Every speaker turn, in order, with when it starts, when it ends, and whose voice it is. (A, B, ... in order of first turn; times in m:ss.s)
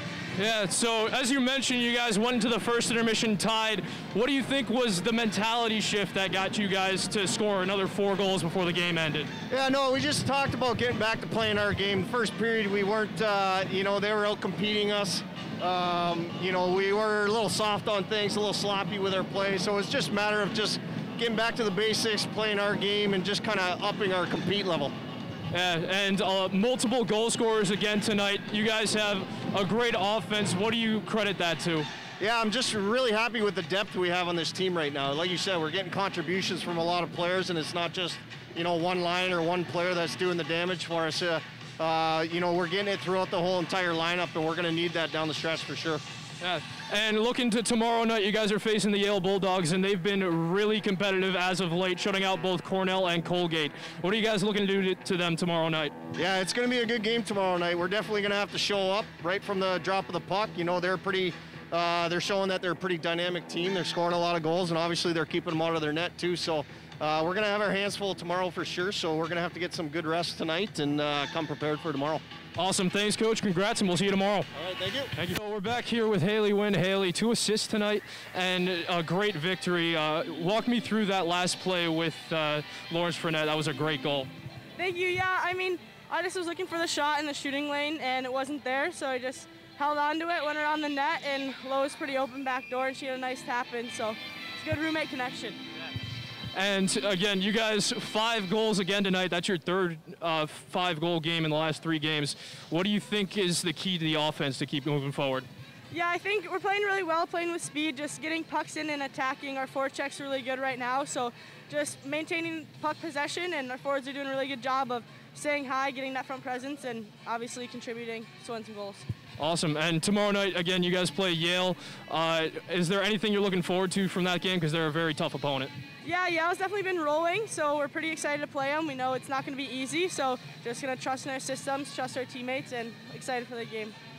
0:00.4-0:09.3 A
0:09.5-0:24.9 B
0:25.5-0:31.9 A
0:32.2-0:46.0 B
0:46.4-0:55.9 A
0:56.2-1:12.2 B
1:12.6-1:14.5 A
1:14.5-1:15.1 B
1:15.2-1:24.3 A
1:24.8-1:35.6 C
1:36.5-1:45.5 A
1:45.9-1:59.1 C
1:59.4-2:05.7 A
2:06.0-2:14.0 C